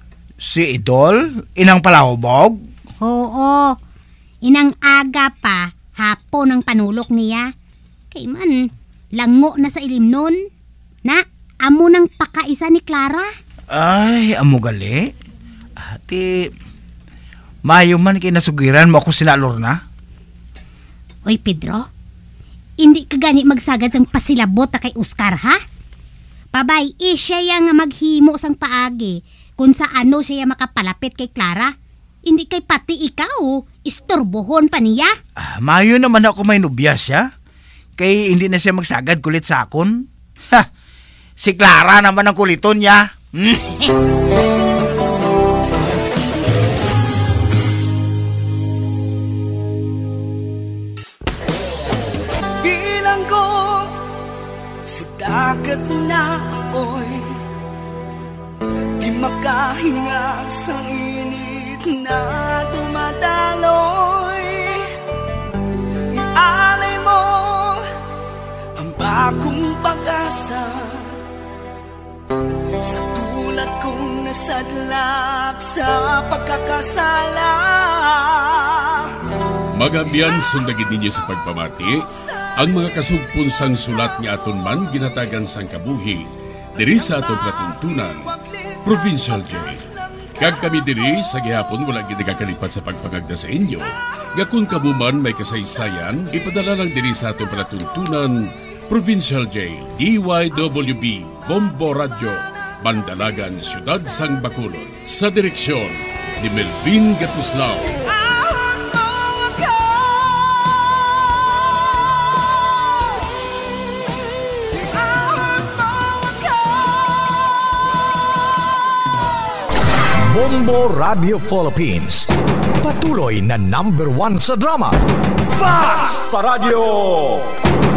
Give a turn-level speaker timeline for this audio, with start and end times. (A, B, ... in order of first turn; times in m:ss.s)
0:00.4-0:02.6 A
0:03.0-0:03.8 B
0:04.4-0:07.5 B
0:08.1-0:10.4 B
0:11.0-0:13.3 B
0:13.7-0:15.1 A
0:15.8-0:16.5 A
0:17.6-0:19.8 A
0:21.3-0:21.9 B
0:22.8-0:25.6 B
0:26.5-0:31.7 B
0:32.3-0:35.1 B
0:35.4-0:37.3 A
0:38.0-0:40.7 A
0:41.4-0:44.0 A
0:52.6-0:54.0 C
0:54.8-0:57.4 C
0:59.0-1:04.9 C
1:06.1-1:07.8 C
1:08.8-1:11.1 C
1:12.8-1:19.2 C
1:19.8-1:22.0 D
1:22.6-1:26.2 D
1:26.8-1:38.4 D
1:38.9-1:48.0 D
2:00.2-2:05.0 E
2:05.6-2:07.5 E